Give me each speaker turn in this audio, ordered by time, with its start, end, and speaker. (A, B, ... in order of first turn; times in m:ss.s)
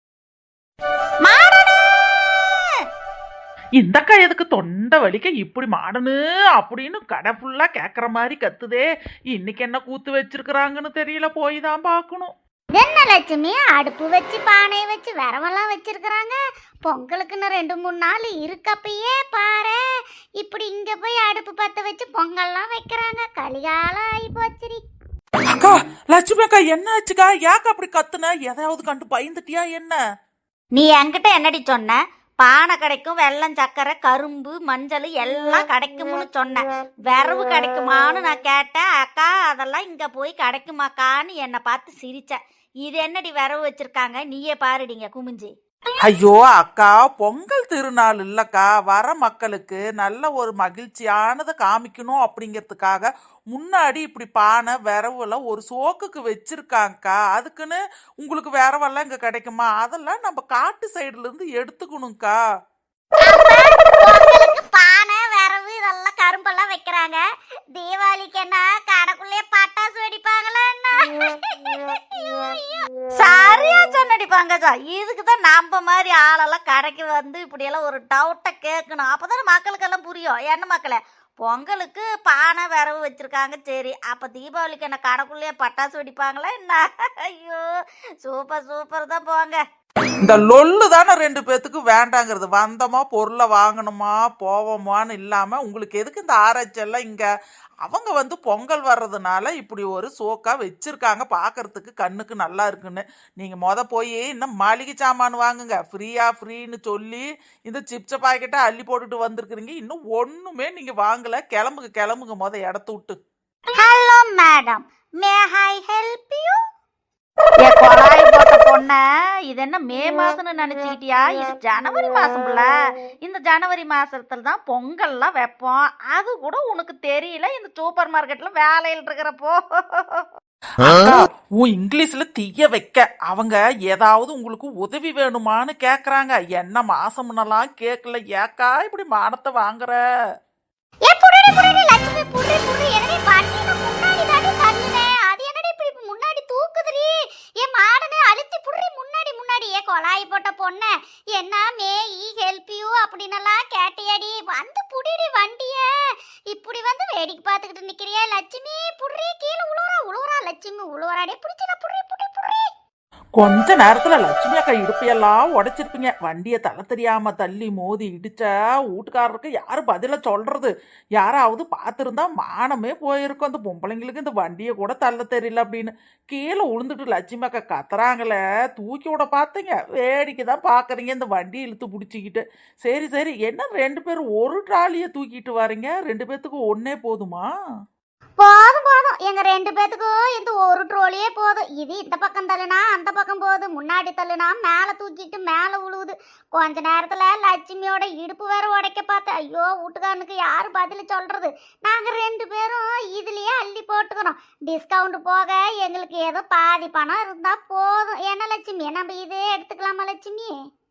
0:01.2-0:02.3 A
0:03.8-0:12.3 B
0:12.8-0:19.8 A
0:20.4-0:24.8 A
0:25.5-0:30.0 B
0:30.7-0:45.5 C
0:46.0-1:02.4 B
1:03.2-1:07.2 A
1:07.8-1:12.8 A
1:13.2-1:27.7 C
1:28.2-1:29.6 C
1:30.2-1:37.3 B
1:37.8-1:53.2 B
1:53.8-1:56.0 C
1:56.0-1:56.5 A
1:57.6-2:02.7 C
2:03.2-2:10.3 C
2:10.8-2:20.0 B
2:21.1-2:27.1 A
2:27.6-2:35.8 A
2:36.5-2:42.7 A
2:43.4-3:07.5 B
3:08.4-3:30.5 A